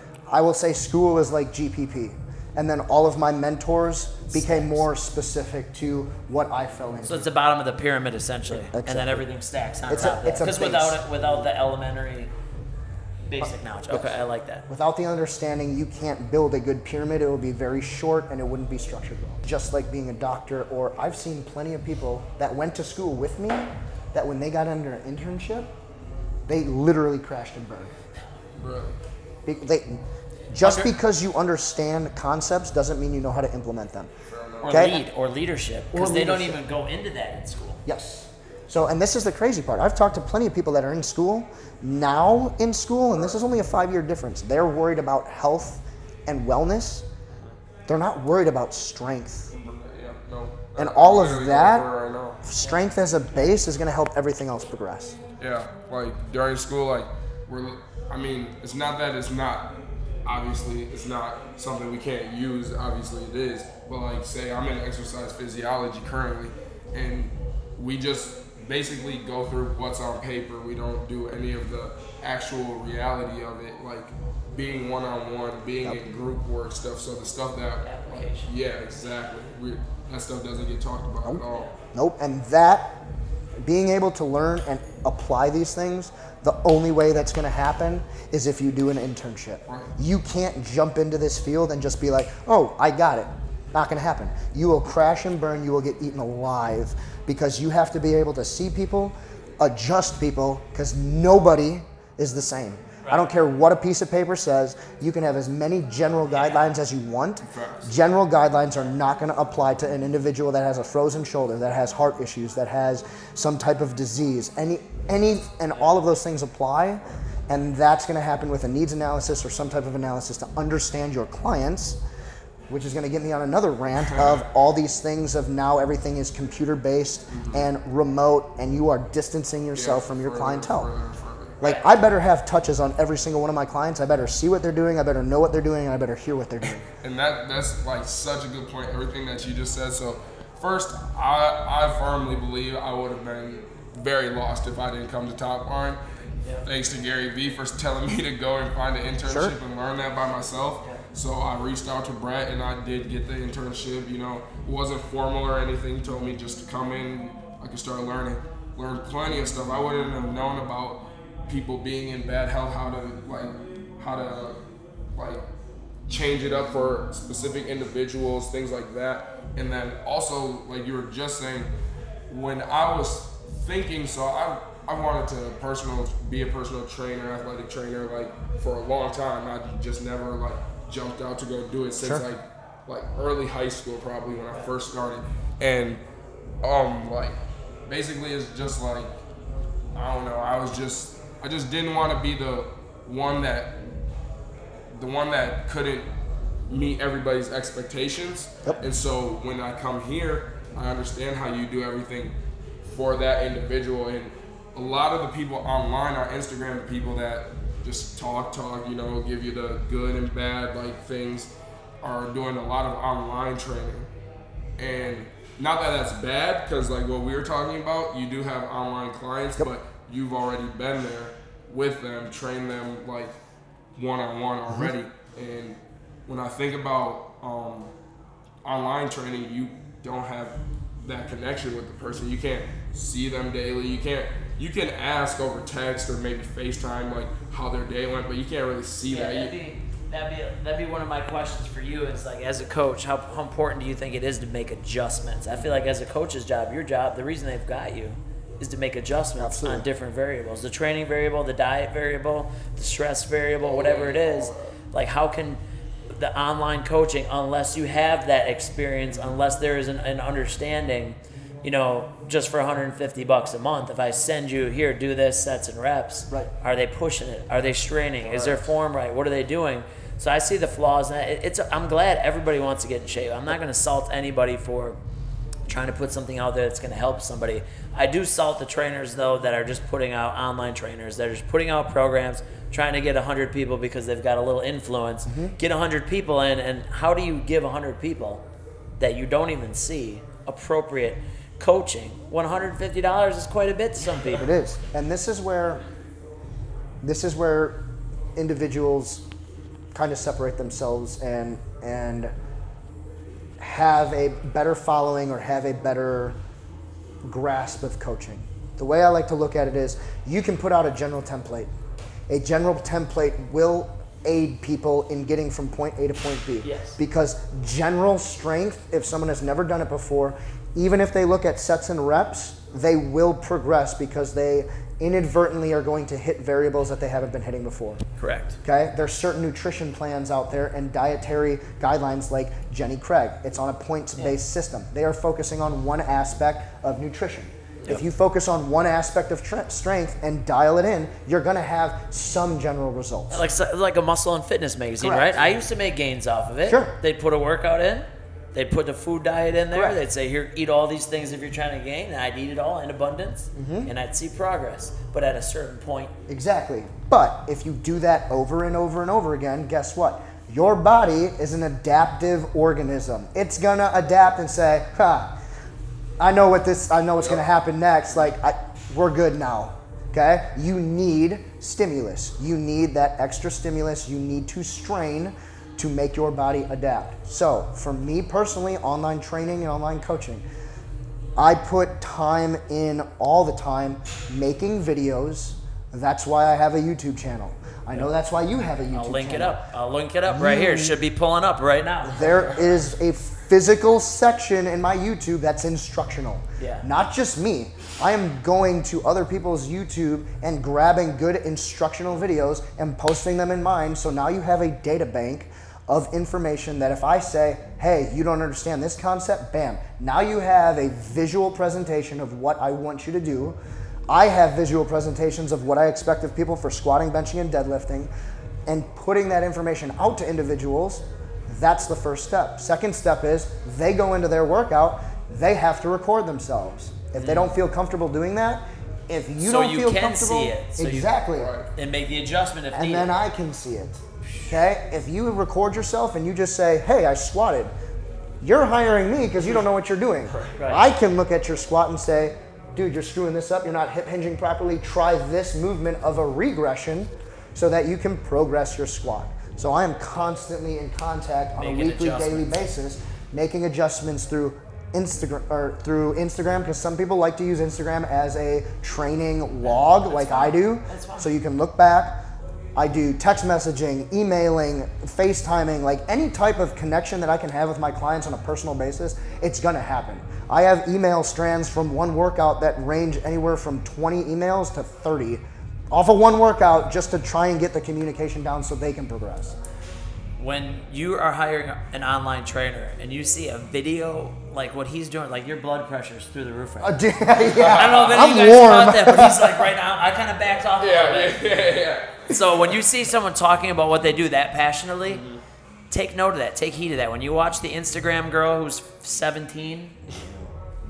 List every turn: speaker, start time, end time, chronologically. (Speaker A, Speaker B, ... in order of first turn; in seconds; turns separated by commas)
Speaker A: 0.3-7.3, Speaker B: 4.3-4.9, Speaker B: 7.0-12.3, Speaker A: 8.5-9.2, Speaker A: 9.9-11.5, Speaker B: 13.3-14.7, Speaker A: 13.9-25.7, Speaker A: 26.5-27.9, Speaker C: 28.6-29.0, Speaker A: 29.5-30.0, Speaker A: 30.5-34.1, Speaker B: 30.6-30.9, Speaker C: 34.3-34.8, Speaker B: 34.6-37.8, Speaker A: 34.7-35.0, Speaker A: 35.9-36.6, Speaker A: 37.9-47.1, Speaker A: 47.9-49.5, Speaker C: 49.5-52.4, Speaker A: 50.8-51.9, Speaker A: 52.4-55.2, Speaker C: 55.4-59.7, Speaker C: 60.3-81.7, Speaker B: 77.8-78.5, Speaker A: 81.9-83.0, Speaker A: 83.6-122.0, Speaker B: 103.0-103.3, Speaker B: 106.3-106.6, Speaker C: 107.5-107.9, Speaker A: 122.7-130.9, Speaker C: 127.3-127.7, Speaker C: 129.7-131.6, Speaker A: 131.6-136.9, Speaker C: 137.0-146.0, Speaker C: 146.6-164.6, Speaker A: 149.2-149.5, Speaker C: 165.2-165.4, Speaker C: 166.1-171.7, Speaker C: 172.3-186.0, Speaker A: 182.0-182.2, Speaker C: 186.6-189.1, Speaker C: 189.9-193.8, Speaker C: 194.9-196.1, Speaker C: 196.7-202.3, Speaker C: 202.8-214.1, Speaker C: 214.8-223.4, Speaker C: 224.0-227.9, Speaker C: 228.6-239.5, Speaker B: 239.1-275.0, Speaker A: 249.3-249.9, Speaker C: 253.6-254.7, Speaker C: 268.2-268.7, Speaker B: 275.7-288.4, Speaker A: 285.3-285.6, Speaker B: 289.0-294.4, Speaker A: 294.3-295.8, Speaker A: 297.0-297.9, Speaker A: 298.4-299.3, Speaker A: 299.9-302.3, Speaker A: 303.6-306.4, Speaker A: 307.2-311.7, Speaker A: 312.3-328.0, Speaker B: 316.6-317.0, Speaker B: 328.2-328.6, Speaker A: 328.6-343.4, Speaker B: 343.3-356.1, Speaker A: 345.0-345.4, Speaker A: 346.6-346.9, Speaker A: 349.7-350.0, Speaker A: 353.6-353.9, Speaker A: 356.3-365.3, Speaker A: 366.2-380.4, Speaker A: 381.4-389.6, Speaker B: 388.9-392.3, Speaker A: 390.3-391.0, Speaker A: 392.0-413.6, Speaker C: 392.3-392.7, Speaker B: 396.6-396.9, Speaker A: 414.1-418.1, Speaker A: 418.7-431.5, Speaker B: 427.2-427.5, Speaker B: 429.4-431.1, Speaker C: 431.4-431.7, Speaker B: 431.8-433.1, Speaker A: 432.7-437.7, Speaker A: 438.4-462.2, Speaker C: 440.3-440.6, Speaker B: 440.6-440.9, Speaker B: 451.6-452.6, Speaker B: 459.6-461.3, Speaker A: 462.8-479.6, Speaker B: 480.4-487.0, Speaker A: 486.8-489.7, Speaker C: 487.4-488.1, Speaker B: 487.6-491.4, Speaker C: 490.8-492.3, Speaker B: 492.3-495.2, Speaker C: 495.1-495.4, Speaker B: 495.9-500.0, Speaker A: 500.1-500.5